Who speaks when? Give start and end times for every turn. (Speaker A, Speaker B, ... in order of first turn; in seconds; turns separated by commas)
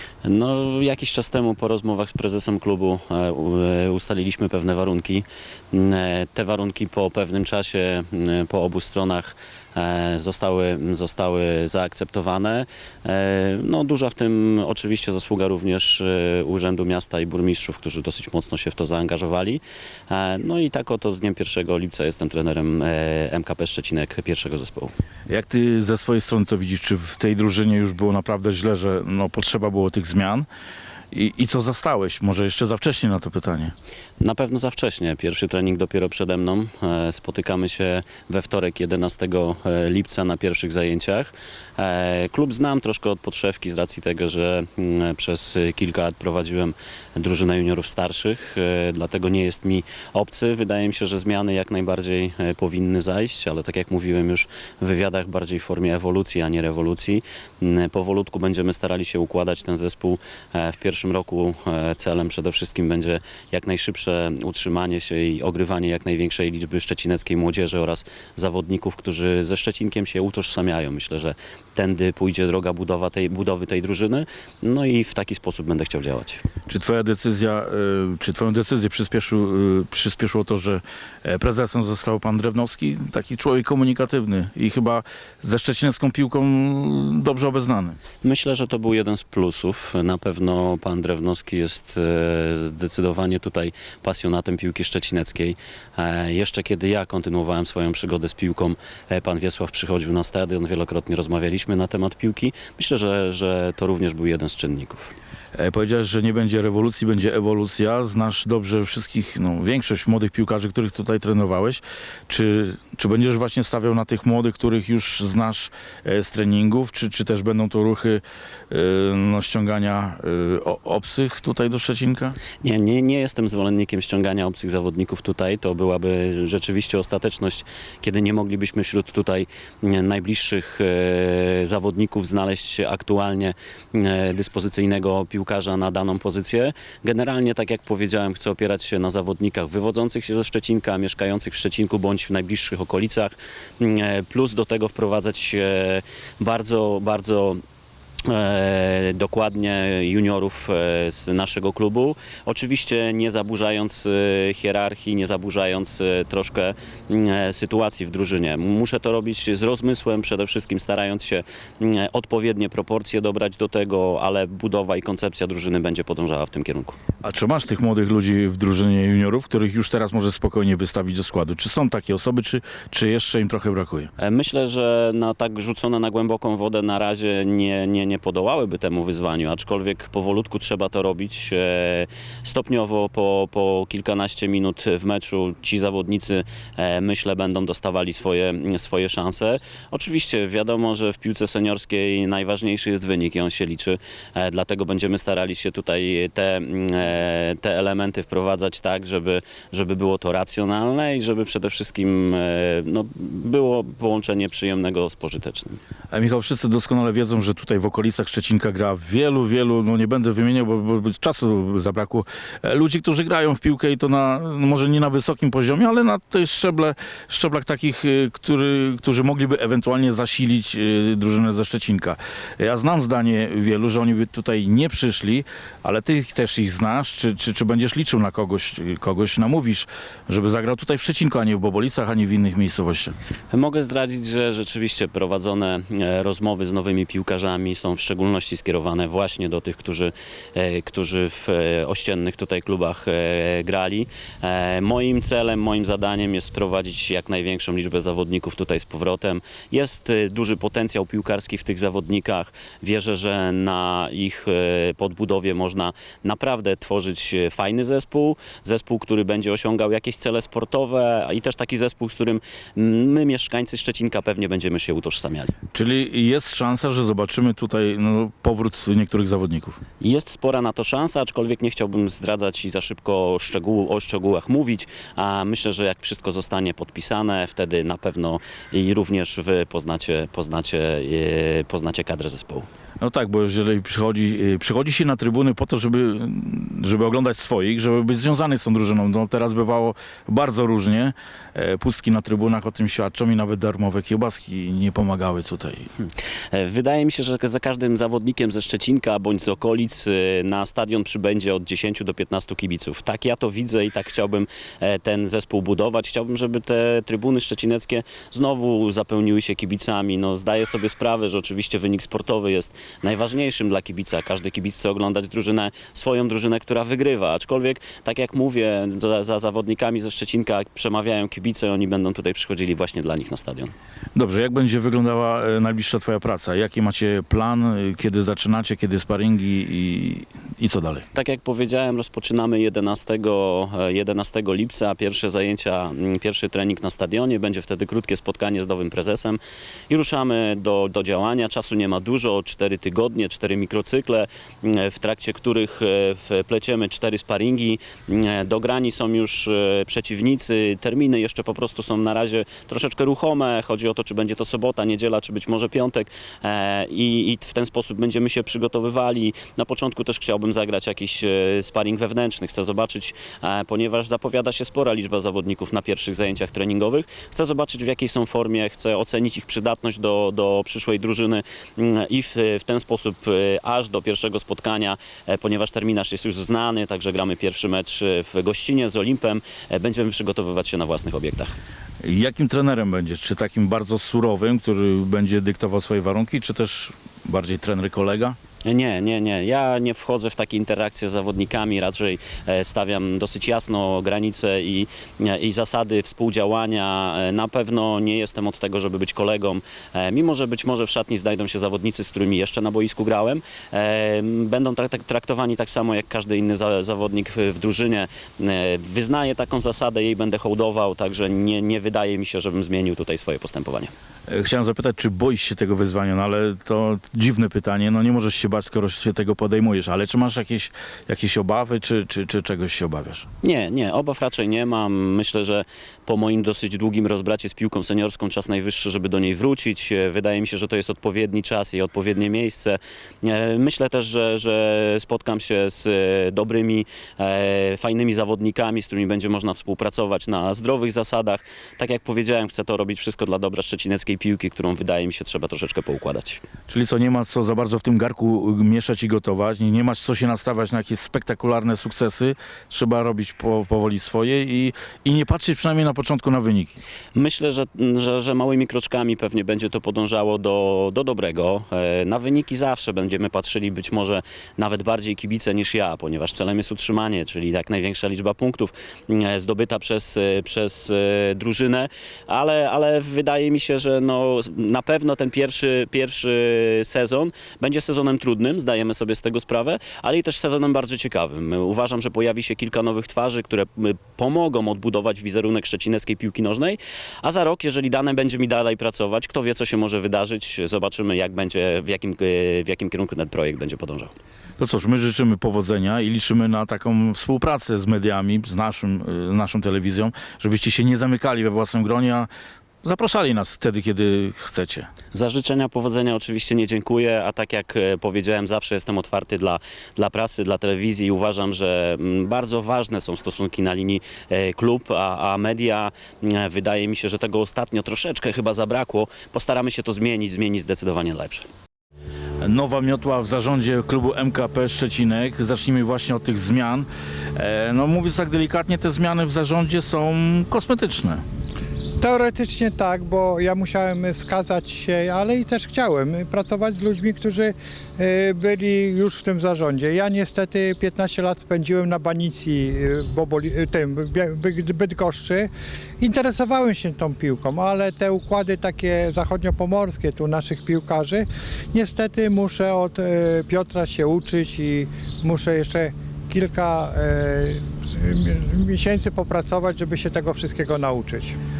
Speaker A: 0.2-24.9, Speaker B: 25.3-30.5, Speaker B: 31.1-33.7, Speaker A: 34.2-76.4, Speaker B: 76.7-88.0, Speaker A: 88.2-105.1, Speaker B: 105.5-122.3, Speaker A: 122.6-147.6, Speaker A: 148.2-167.0, Speaker B: 167.2-174.1, Speaker A: 174.2-205.8, Speaker B: 206.1-233.1, Speaker A: 233.5-265.5, Speaker B: 265.7-269.8, Speaker A: 270.0-282.7, Speaker B: 283.0-295.9, Speaker A: 296.5-323.7, Speaker B: 324.1-331.1, Speaker A: 331.1-339.4, Speaker A: 339.9-381.5, Speaker B: 382.0-388.4, Speaker A: 388.6-413.9, Speaker B: 414.3-423.2, Speaker A: 423.4-446.4, Speaker B: 446.7-456.8, Speaker A: 457.1-494.1, Speaker B: 494.6-502.3, Speaker B: 502.8-504.9, Speaker A: 505.1-521.5, Speaker B: 522.4-531.2, Speaker C: 532.0-545.5, Speaker C: 546.0-561.4